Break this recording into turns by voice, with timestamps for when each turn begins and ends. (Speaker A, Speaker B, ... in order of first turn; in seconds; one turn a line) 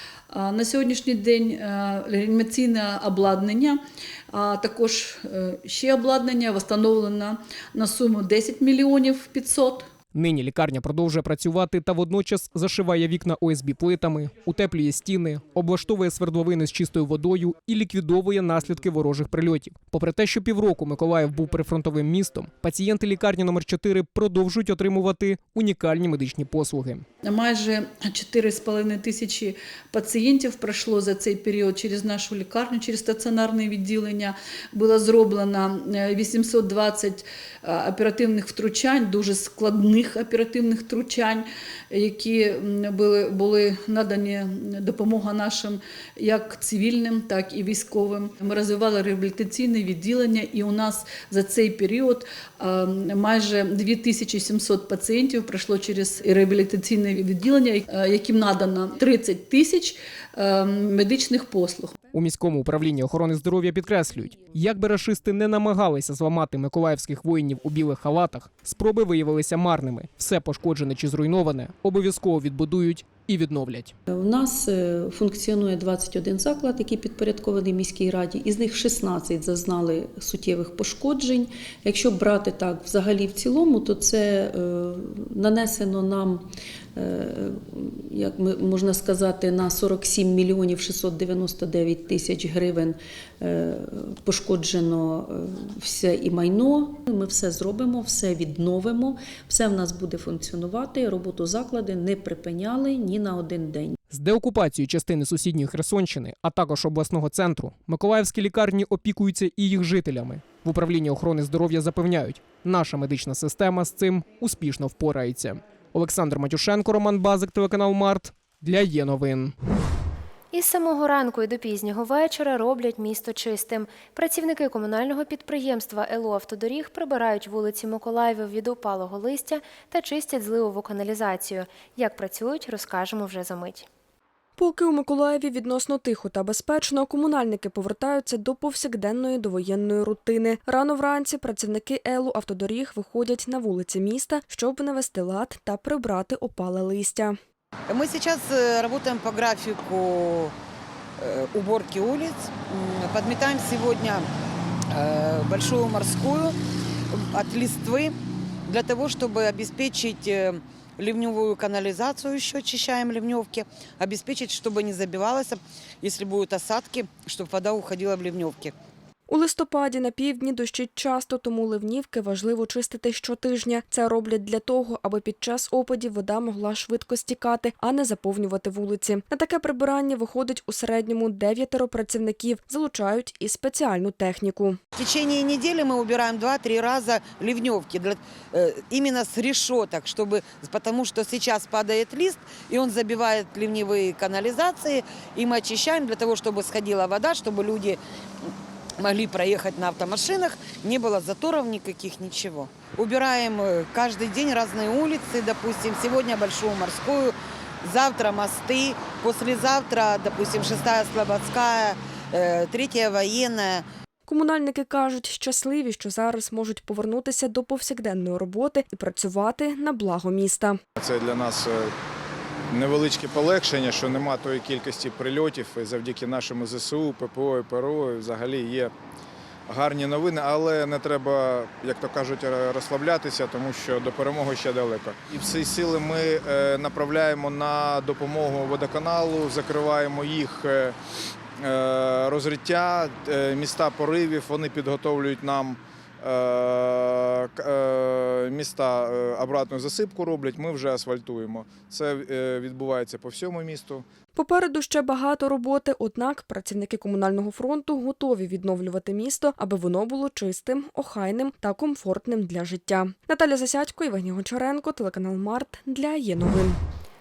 Speaker A: 0.3-9.9
Speaker B: 10.1-27.1
Speaker A: 27.2-62.0
Speaker B: 62.1-74.0
Speaker C: 74.1-104.0
Speaker B: 104.1-119.5
Speaker D: 120.5-133.9
Speaker E: 134.6-147.4
Speaker F: 147.9-150.5
Speaker F: 151.2-154.3
Speaker F: 154.9-156.6
Speaker F: 157.1-158.2
Speaker F: 158.7-168.7
Speaker E: 169.3-184.8
Speaker F: 185.0-198.0
Speaker F: 199.0-213.8
Speaker E: 214.3-220.8
Speaker G: 221.0-221.9
Speaker G: 222.7-228.9
Speaker G: 229.7-240.9
Speaker G: 241.6-254.1
Speaker E: 254.3-266.8